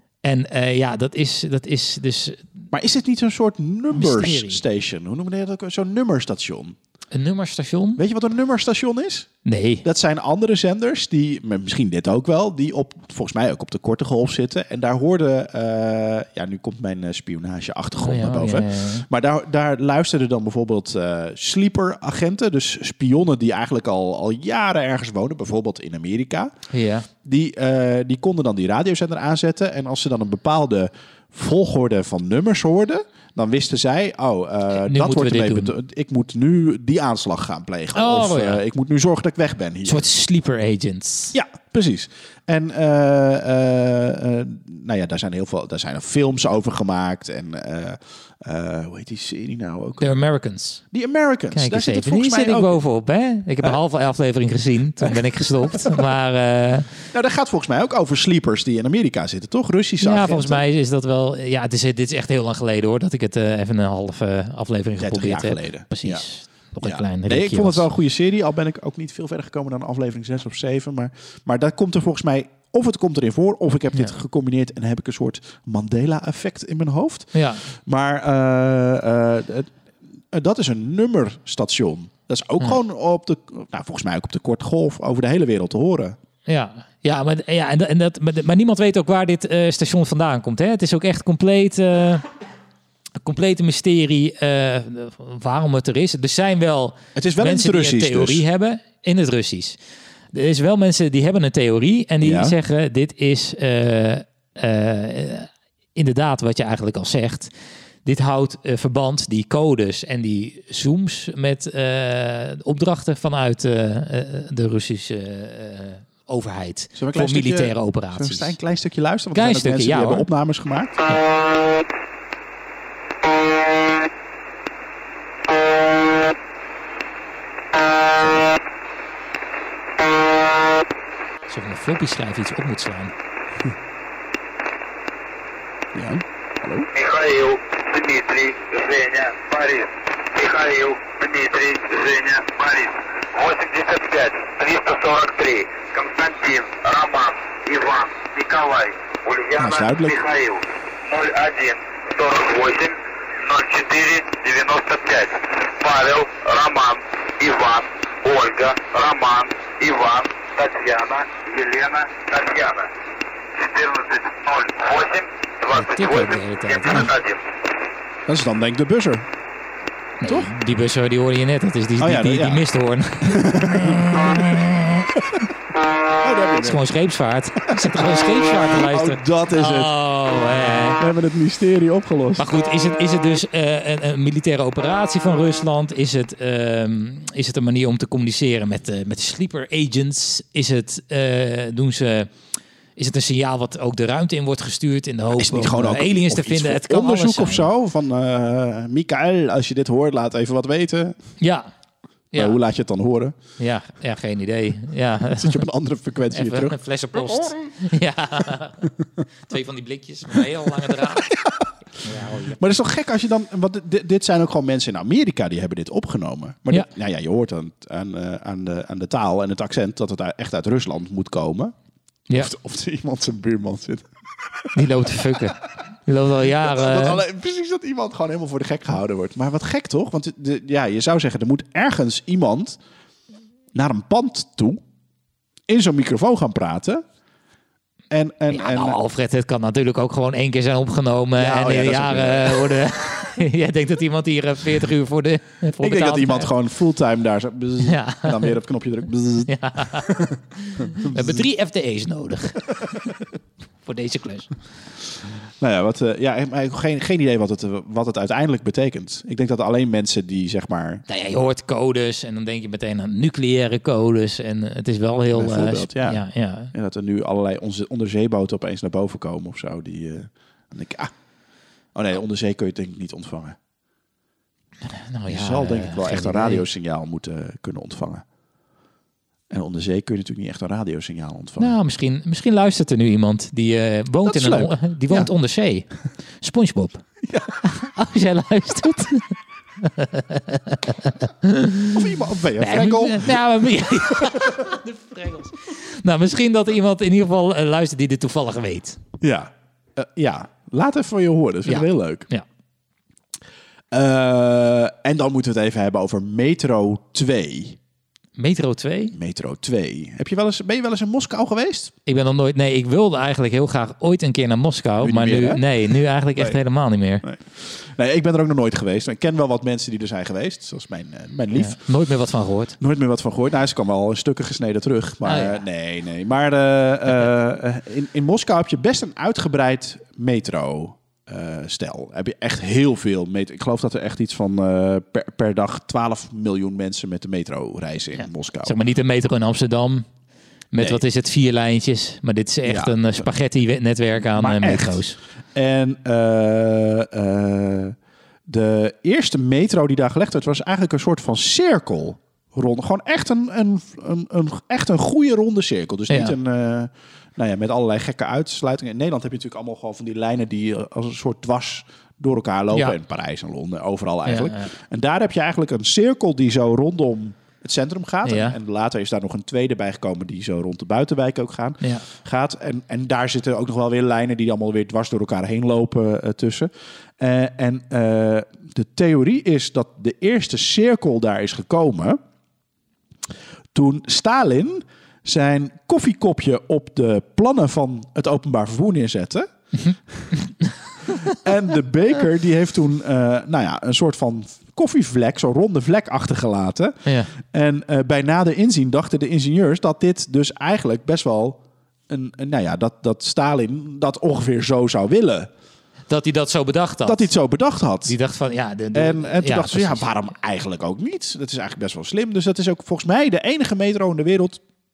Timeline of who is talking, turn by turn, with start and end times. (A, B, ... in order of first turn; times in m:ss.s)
0:00.2-0:02.6 A
0:02.7-0:06.8 B
0:03.9-0:04.6 A
0:07.1-0:08.0 A
0:08.0-0:26.5 B
0:09.4-0:09.8 A
0:18.0-0:19.0 A
0:26.7-0:27.1 A
0:27.2-0:40.1 B
0:34.7-0:35.7 A
0:37.9-0:38.6 A
0:39.8-0:41.3 A
0:41.3-0:50.2 B
0:50.0-0:50.8 A
0:50.9-0:52.8 B
0:51.5-0:56.9 A
0:55.0-0:56.0 B
0:57.1-1:00.6 B
1:00.0-1:07.8 A
1:05.0-1:06.3 B
1:06.8-1:19.7 B
1:17.3-1:17.6 A
1:20.3-1:26.2 B
1:26.5-1:32.2 A
1:33.2-1:39.8 A
1:37.2-1:38.4 B
1:40.3-1:47.5 A
1:42.2-1:42.6 B
1:48.0-1:58.5 A
1:56.9-2:01.0 B
1:59.3-2:00.3 A
2:11.5-2:13.1 A
2:15.9-2:16.9 B
2:16.9-2:42.9 C
2:29.6-2:30.2 B
2:43.6-2:47.4 C
2:45.7-2:47.1 A
2:48.3-2:49.3 B
2:50.2-2:55.0 A
2:50.2-2:50.5 B
2:52.0-2:52.6 B
2:53.2-2:55.4 B
2:56.2-2:56.8 B
2:56.6-3:01.0 A
2:57.6-2:59.9 B
3:01.0-3:02.5 B
3:02.4-3:12.3 A
3:13.0-3:17.7 A
3:15.4-3:21.3 B
3:21.4-3:21.7 A
3:22.3-3:22.6 A
3:22.3-3:23.3 B
3:23.6-3:25.6 A
3:25.4-3:27.8 B
3:26.3-3:28.8 A
3:28.8-3:29.2 B
3:29.5-3:31.3 A
3:30.9-3:31.7 B
3:32.0-3:32.6 A
3:32.6-3:41.7 B
3:42.3-3:44.8 B
3:44.7-3:47.2 A
3:46.5-3:52.8 B
3:53.7-3:54.8 B
3:55.7-3:57.0 B
3:58.1-3:59.0 B
3:58.5-4:06.5 A
4:01.4-4:02.7 B
4:05.8-4:11.4 B
4:07.8-4:08.6 A
4:09.5-4:10.1 A
4:11.0-4:12.7 A
4:13.8-4:14.5 A
4:15.6-4:21.0 B
4:21.1-4:26.7 A
4:25.3-4:31.1 B
4:31.9-4:33.6 B
4:34.9-4:36.6 A
4:35.3-4:38.2 B
4:39.5-4:41.8 B
4:41.6-4:47.0 A
4:44.2-4:45.3 B
4:47.2-4:47.6 B
4:47.7-4:52.0 A
4:51.9-4:53.4 B
4:52.6-4:59.0 A
4:54.1-4:54.5 B
4:59.2-5:02.3 B
5:01.6-5:02.4 A
5:03.9-5:07.8 B
5:08.4-5:09.1 A
5:09.1-5:11.9 B
5:12.0-5:17.2 A
5:15.0-5:16.6 B
5:17.2-5:21.8 B
5:21.5-5:22.8 A
5:22.8-5:38.8 B
5:25.2-5:25.6 A
5:38.2-5:40.1 A
5:40.7-5:45.2 A
5:40.8-5:41.0 B
5:42.6-5:43.3 B
5:44.3-5:48.0 B
5:48.5-6:22.2 B
5:56.1-5:56.3 A
6:04.2-6:04.7 A
6:08.2-6:08.6 A
6:11.8-6:12.0 A
6:23.7-6:29.5 B
6:30.1-6:30.3 B
6:31.3-6:45.5 B
6:37.0-6:37.3 A
6:46.1-6:47.3 A
6:47.0-6:48.1 B
6:48.0-6:50.1 A
6:48.9-6:54.6 B